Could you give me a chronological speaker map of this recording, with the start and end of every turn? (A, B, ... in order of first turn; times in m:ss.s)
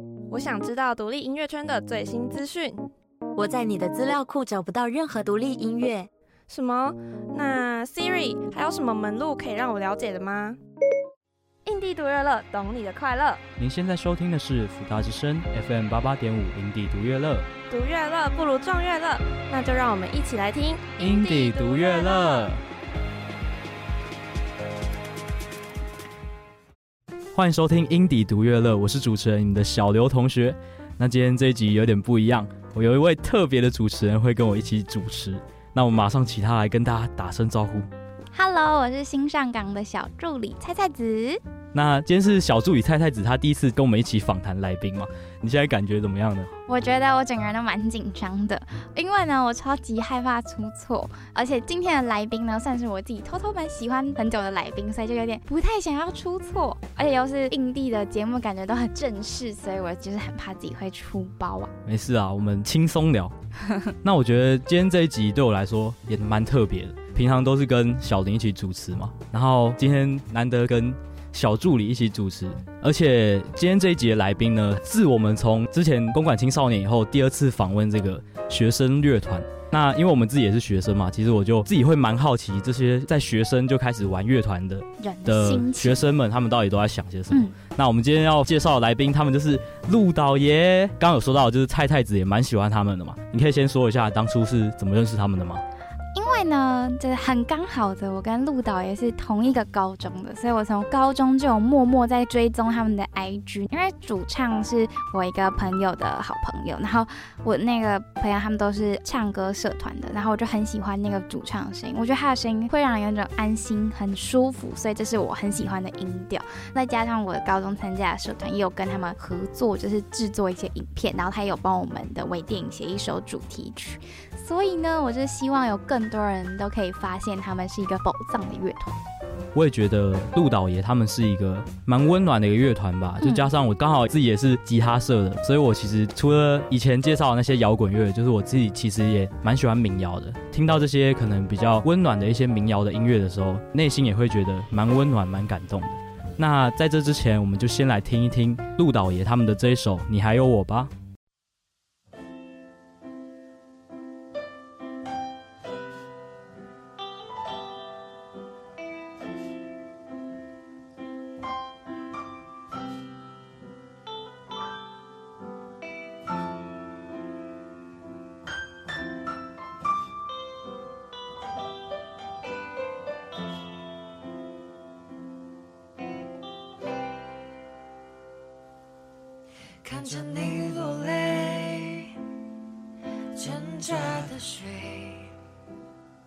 0:00.3-0:02.8 A
0:03.4-0:06.1 B
0:06.5-0:10.6 A
0:11.6-0:13.4 A
0:13.6-0:17.5 C
0:17.7-0:22.6 A
0:21.0-0:22.6 C
0:27.3-0:37.9 C
0:38.3-0:41.4 D
0:41.7-0:46.5 C
0:46.7-1:01.7 D
1:01.8-1:03.3 C
1:04.0-1:35.6 C
1:25.0-1:26.0 D
1:36.1-2:09.0 D
2:09.5-2:30.9 C
2:13.2-2:13.5 D
2:59.8-3:02.1 E
3:03.3-3:05.3 E